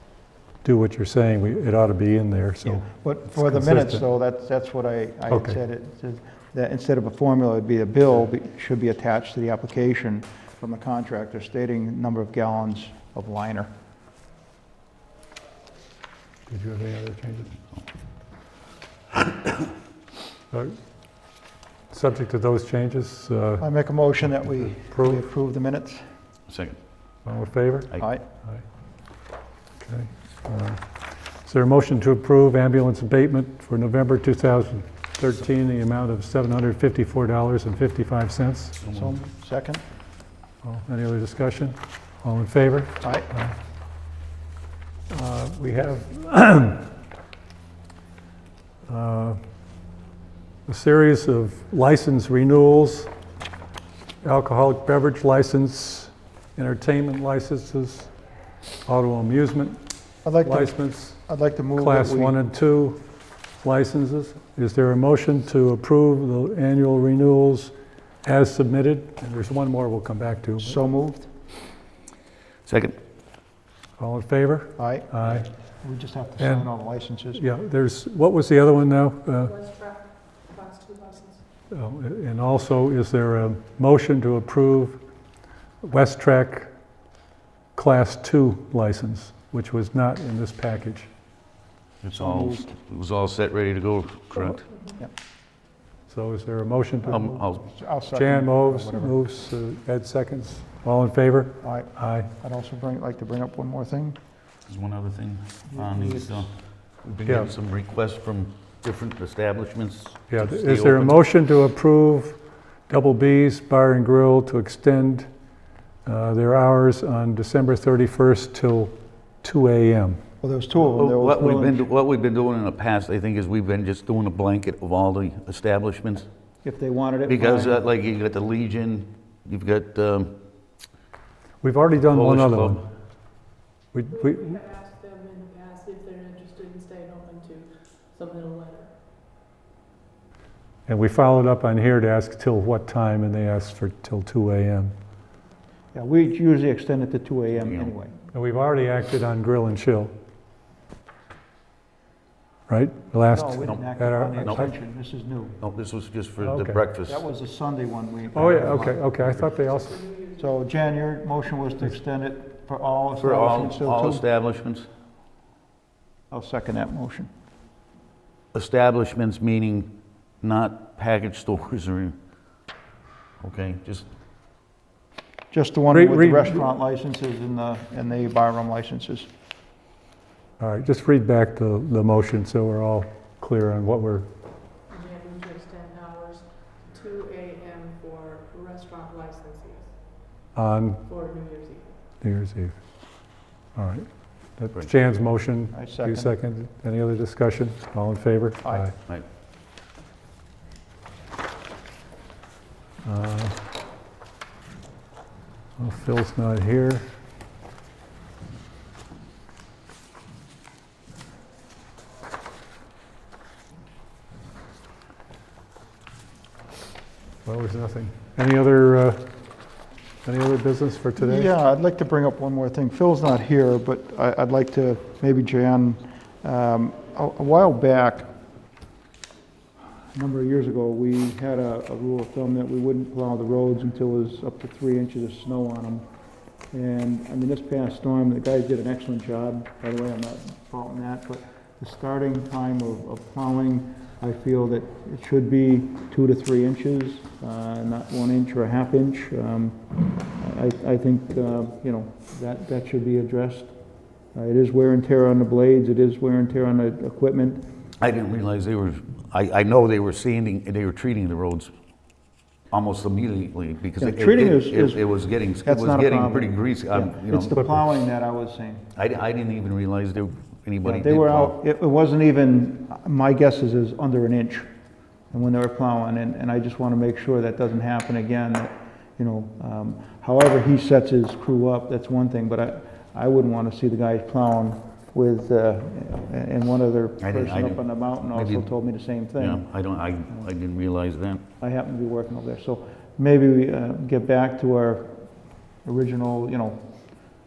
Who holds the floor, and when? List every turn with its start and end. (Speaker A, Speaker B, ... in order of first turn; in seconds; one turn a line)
Speaker A: 0.6-4.0
Speaker B: 2.6-13.7
Speaker A: 5.3-5.6
Speaker A: 16.5-17.5
Speaker A: 20.5-20.8
Speaker A: 21.9-23.6
Speaker B: 23.6-26.1
Speaker A: 24.8-25.2
Speaker C: 26.5-26.8
Speaker A: 27.2-28.6
Speaker A: 29.8-38.8
Speaker B: 38.8-39.8
Speaker A: 40.6-43.5
Speaker B: 43.0-43.3
Speaker A: 45.1-46.9
Speaker A: 48.9-49.4
Speaker A: 50.7-53.1
Speaker A: 54.2-58.1
Speaker A: 58.9-59.8
Speaker B: 60.2-62.4
Speaker A: 60.4-61.2
Speaker A: 61.8-63.0
Speaker A: 63.6-67.7
Speaker A: 68.2-70.8
Speaker B: 70.6-71.3
Speaker C: 72.6-73.0
Speaker A: 74.0-75.5
Speaker B: 74.8-75.2
Speaker B: 75.8-77.4
Speaker A: 76.4-76.7
Speaker A: 77.3-79.5
Speaker D: 79.5-81.4
Speaker A: 81.7-85.0
Speaker A: 85.8-86.7
Speaker A: 87.7-91.1
Speaker C: 92.0-94.7
Speaker B: 92.1-92.7
Speaker A: 96.1-97.3
Speaker B: 97.0-99.1
Speaker C: 97.1-97.6
Speaker A: 98.1-102.3
Speaker B: 101.6-104.2
Speaker C: 104.7-111.2
Speaker B: 105.7-106.4
Speaker A: 110.3-112.4
Speaker A: 112.9-115.3
Speaker A: 116.0-120.2
Speaker B: 120.4-121.8
Speaker C: 120.9-126.3
Speaker B: 126.6-127.8
Speaker C: 127.3-130.3
Speaker A: 131.6-132.8
Speaker C: 132.1-132.8
Speaker A: 133.9-134.6
Speaker D: 134.1-138.9
Speaker A: 140.9-144.9
Speaker B: 145.9-148.1
Speaker C: 147.6-147.9
Speaker A: 148.3-150.1
Speaker A: 152.7-154.7
Speaker B: 153.3-155.6
Speaker C: 155.6-157.2
Speaker A: 156.4-156.8
Speaker B: 157.1-159.1
Speaker A: 158.3-160.0
Speaker D: 159.3-160.4
Speaker B: 160.3-164.2
Speaker C: 163.2-164.9
Speaker B: 166.3-167.3
Speaker C: 168.5-172.2
Speaker C: 173.4-174.1
Speaker B: 175.5-179.3
Speaker A: 175.9-176.7
Speaker A: 180.6-184.3
Speaker D: 184.9-189.9
Speaker A: 190.5-191.0
Speaker D: 191.1-192.0
Speaker A: 192.2-192.8
Speaker A: 193.8-198.9
Speaker B: 195.7-196.3
Speaker A: 203.0-203.6
Speaker A: 205.8-207.1
Speaker A: 217.4-219.3
Speaker A: 220.2-221.5
Speaker B: 221.2-228.3
Speaker B: 230.1-236.0
Speaker B: 236.7-249.8
Speaker B: 250.3-253.7
Speaker B: 254.3-257.6
Speaker C: 258.0-261.7
Speaker C: 262.7-267.8
Speaker B: 264.0-265.0
Speaker B: 265.6-268.8
Speaker C: 268.9-271.6
Speaker B: 270.8-274.7
Speaker B: 275.3-289.7
Speaker C: 287.2-287.8
Speaker C: 288.3-288.6
Speaker C: 289.4-291.4
Speaker B: 291.6-295.2
Speaker B: 295.8-297.2